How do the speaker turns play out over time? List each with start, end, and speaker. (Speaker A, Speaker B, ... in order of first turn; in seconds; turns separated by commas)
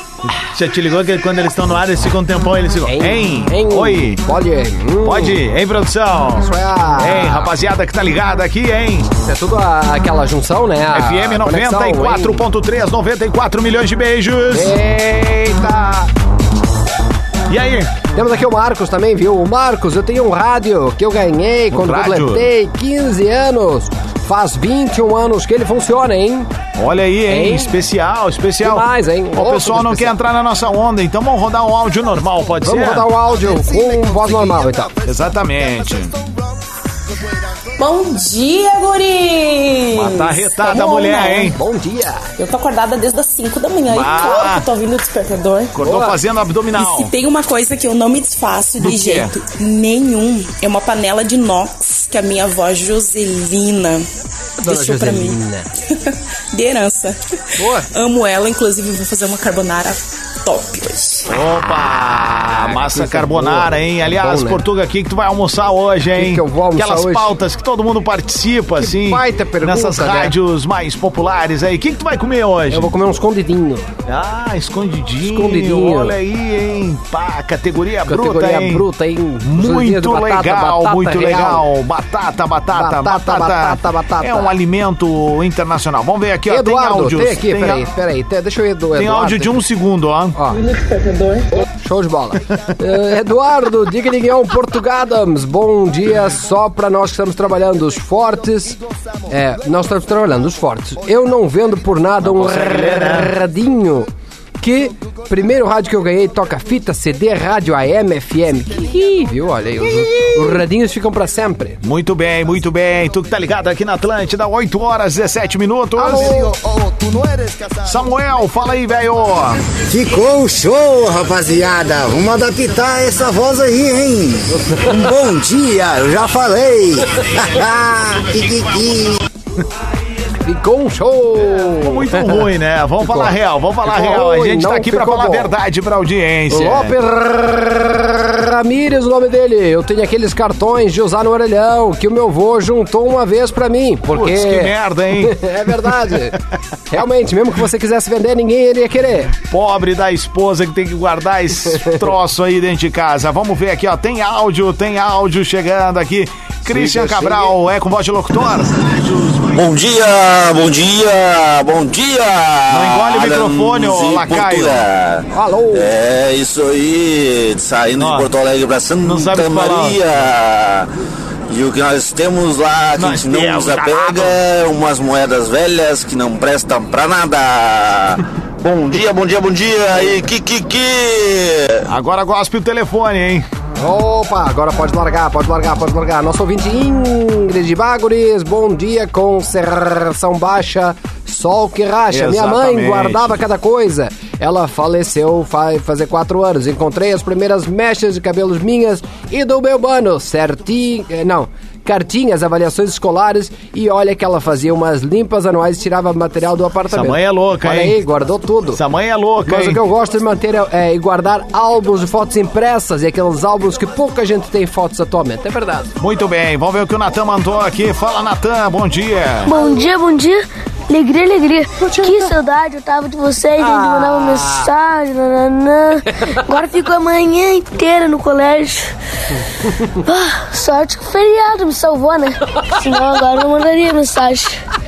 Speaker A: 0.3-4.2, Speaker B: 2.9-5.4, Speaker A: 5.0-9.1, Speaker B: 6.4-7.5, Speaker B: 9.2-12.4, Speaker A: 10.9-16.1, Speaker B: 14.5-15.4, Speaker A: 17.5-18.0, Speaker B: 18.1-26.5, Speaker A: 21.7-22.5, Speaker A: 26.8-33.1, Speaker B: 27.3-27.7, Speaker B: 28.6-30.1, Speaker B: 32.6-35.0, Speaker A: 35.0-36.2, Speaker C: 37.8-41.5, Speaker A: 39.9-41.6, Speaker B: 41.5-42.3, Speaker C: 42.4-45.7, Speaker A: 43.9-44.7, Speaker A: 45.7-47.1, Speaker B: 45.8-46.2, Speaker C: 46.8-54.1, Speaker A: 48.8-49.3, Speaker B: 54.6-55.7, Speaker C: 54.6-55.4, Speaker C: 56.5-57.2, Speaker B: 57.6-57.9, Speaker C: 57.9-61.3, Speaker A: 61.3-72.9, Speaker B: 62.2-64.6, Speaker B: 66.1-67.3, Speaker B: 68.8-70.3, Speaker B: 72.7-73.9, Speaker A: 74.1-78.9, Speaker B: 75.2-76.2, Speaker B: 78.1-81.7, Speaker A: 79.4-87.8, Speaker B: 82.7-84.6, Speaker B: 86.5-89.6, Speaker A: 88.9-90.4, Speaker B: 90.4-90.6, Speaker C: 90.5-91.5, Speaker B: 91.8-98.8, Speaker B: 99.3-104.1, Speaker A: 102.2-103.3, Speaker B: 104.6-111.8, Speaker A: 111.8-116.6, Speaker B: 116.0-116.5, Speaker D: 116.8-117.7, Speaker A: 117.8-119.6, Speaker D: 119.9-129.2, Speaker B: 124.5-124.9, Speaker B: 130.4-132.5, Speaker A: 131.5-137.0, Speaker B: 133.0-135.6, Speaker B: 136.5-146.4, Speaker A: 144.1-146.4, Speaker B: 146.9-149.3, Speaker A: 149.3-159.8, Speaker B: 151.8-152.0, Speaker B: 156.7-157.5, Speaker E: 159.6-170.9, Speaker A: 162.7-164.8, Speaker B: 165.3-165.9, Speaker A: 168.0-168.3, Speaker A: 169.0-170.0, Speaker E: 171.5-181.9, Speaker A: 173.0-174.4, Speaker A: 181.9-183.4, Speaker B: 183.8-208.8, Speaker A: 192.1-193.4, Speaker A: 206.9-208.0, Speaker A: 208.7-209.8, Speaker B: 209.5-215.9, Speaker A: 216.0-219.5, Speaker F: 219.5-228.9, Speaker B: 221.8-222.3, Speaker B: 223.6-224.7, Speaker F: 230.0-234.6